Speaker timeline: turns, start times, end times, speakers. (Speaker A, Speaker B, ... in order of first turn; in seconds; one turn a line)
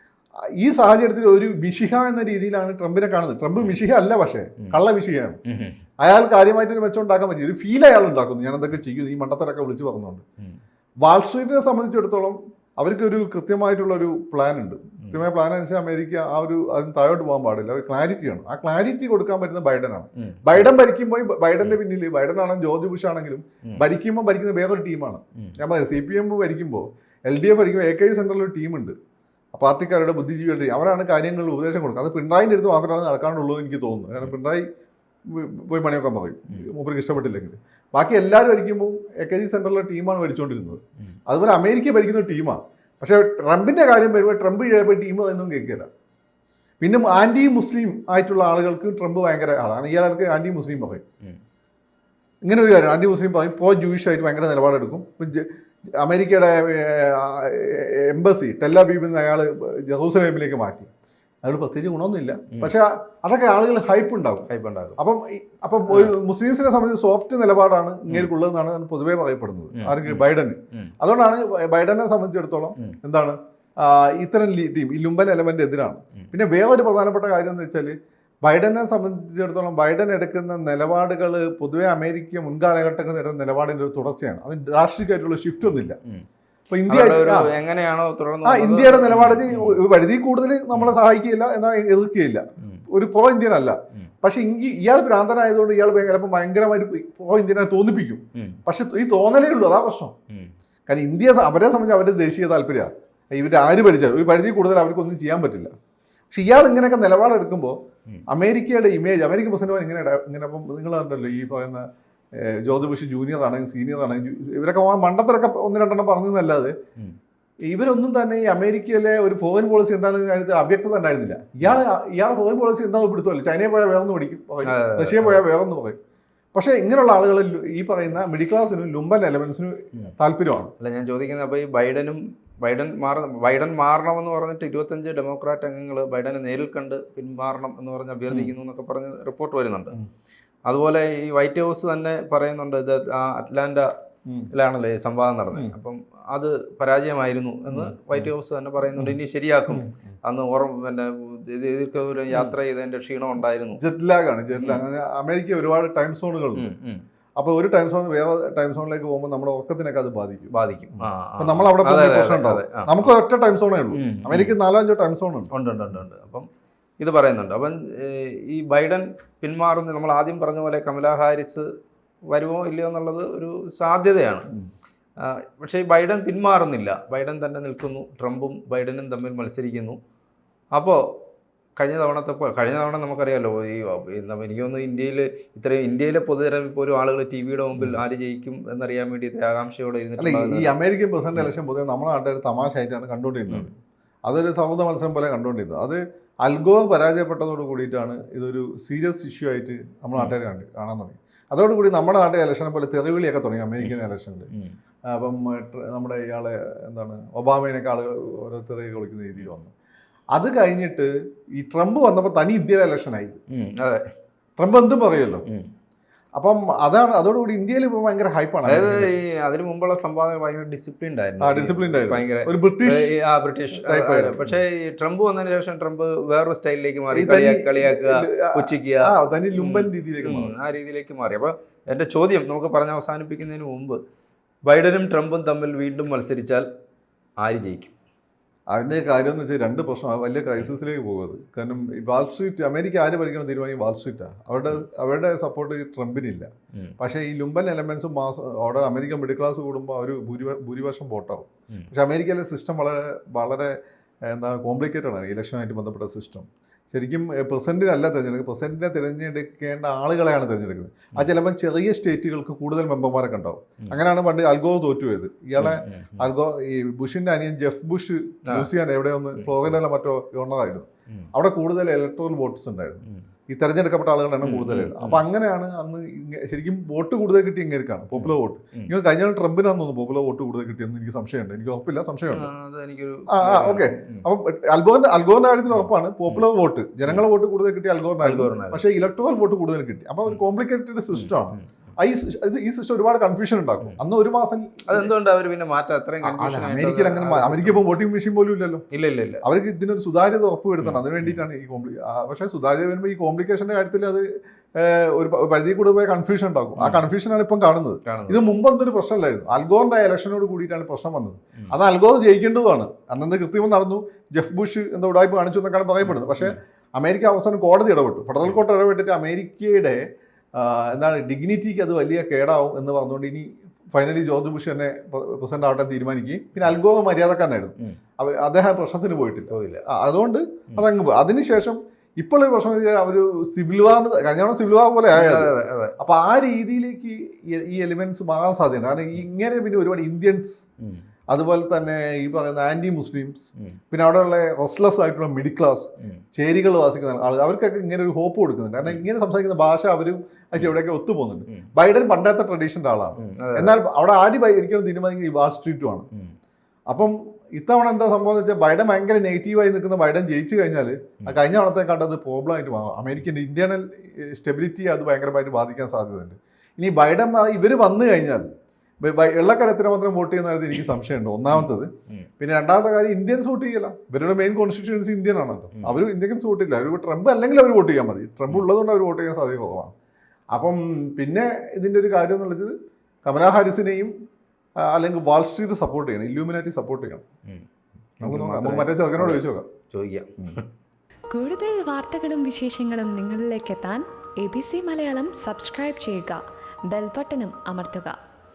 Speaker A: 0.6-5.4
Speaker B: 5.5-5.8
Speaker A: 6.0-10.2
Speaker A: 11.0-28.9
Speaker B: 20.2-20.7
Speaker A: 29.5-34.6
Speaker A: 35.3-45.9
Speaker A: 46.8-51.0
Speaker A: 52.4-60.9
Speaker A: 61.4-86.0
Speaker B: 64.5-65.0
Speaker B: 65.9-66.2
Speaker B: 69.8-70.9
Speaker A: 86.7-87.5
Speaker B: 86.9-89.8
Speaker A: 88.4-100.1
Speaker B: 98.3-98.6
Speaker A: 100.9-105.7
Speaker A: 106.3-107.8
Speaker A: 108.3-116.7
Speaker A: 117.7-126.0
Speaker B: 124.6-125.4
Speaker A: 126.5-130.7
Speaker B: 130.8-139.9
Speaker A: 138.3-138.5
Speaker B: 140.7-143.9
Speaker A: 144.2-144.5
Speaker B: 144.5-153.8
Speaker A: 147.7-148.3
Speaker A: 149.7-150.0
Speaker A: 153.8-156.7
Speaker B: 156.5-157.0
Speaker A: 157.4-166.0
Speaker B: 160.5-163.1
Speaker B: 163.9-164.5
Speaker B: 165.5-166.5
Speaker B: 167.0-171.7
Speaker B: 172.3-174.5
Speaker B: 175.2-180.0
Speaker B: 180.7-181.1
Speaker B: 181.8-190.7
Speaker A: 190.2-193.7
Speaker A: 194.2-204.5
Speaker A: 205.1-209.7
Speaker A: 210.3-213.4
Speaker B: 213.5-214.1
Speaker A: 214.6-215.4
Speaker A: 216.3-219.2
Speaker B: 218.7-234.0
Speaker A: 221.4-223.1
Speaker A: 223.8-224.6
Speaker A: 227.1-230.5
Speaker B: 234.7-236.7
Speaker B: 237.4-237.9
Speaker A: 238.7-253.7
Speaker A: 254.2-282.5
Speaker B: 265.6-266.3
Speaker B: 269.4-269.8
Speaker B: 274.4-275.2
Speaker B: 278.1-278.9
Speaker B: 282.3-284.2
Speaker A: 283.3-295.1
Speaker B: 285.7-286.4
Speaker B: 288.2-288.8
Speaker B: 291.1-291.6
Speaker B: 294.9-297.8
Speaker A: 296.2-298.8
Speaker B: 298.9-299.4
Speaker A: 299.4-320.0
Speaker B: 300.8-301.4
Speaker B: 306.8-307.0
Speaker B: 308.1-308.4
Speaker B: 316.1-316.6
Speaker A: 320.5-340.6
Speaker B: 329.5-329.9
Speaker B: 335.1-336.0
Speaker B: 340.8-341.1
Speaker A: 341.3-356.1
Speaker B: 353.2-353.8
Speaker A: 356.9-368.4
Speaker A: 369.0-379.9
Speaker B: 371.5-372.3
Speaker A: 380.5-382.7
Speaker A: 383.2-384.1
Speaker A: 384.9-387.2
Speaker A: 388.2-389.6
Speaker B: 388.2-390.7
Speaker C: 391.3-398.2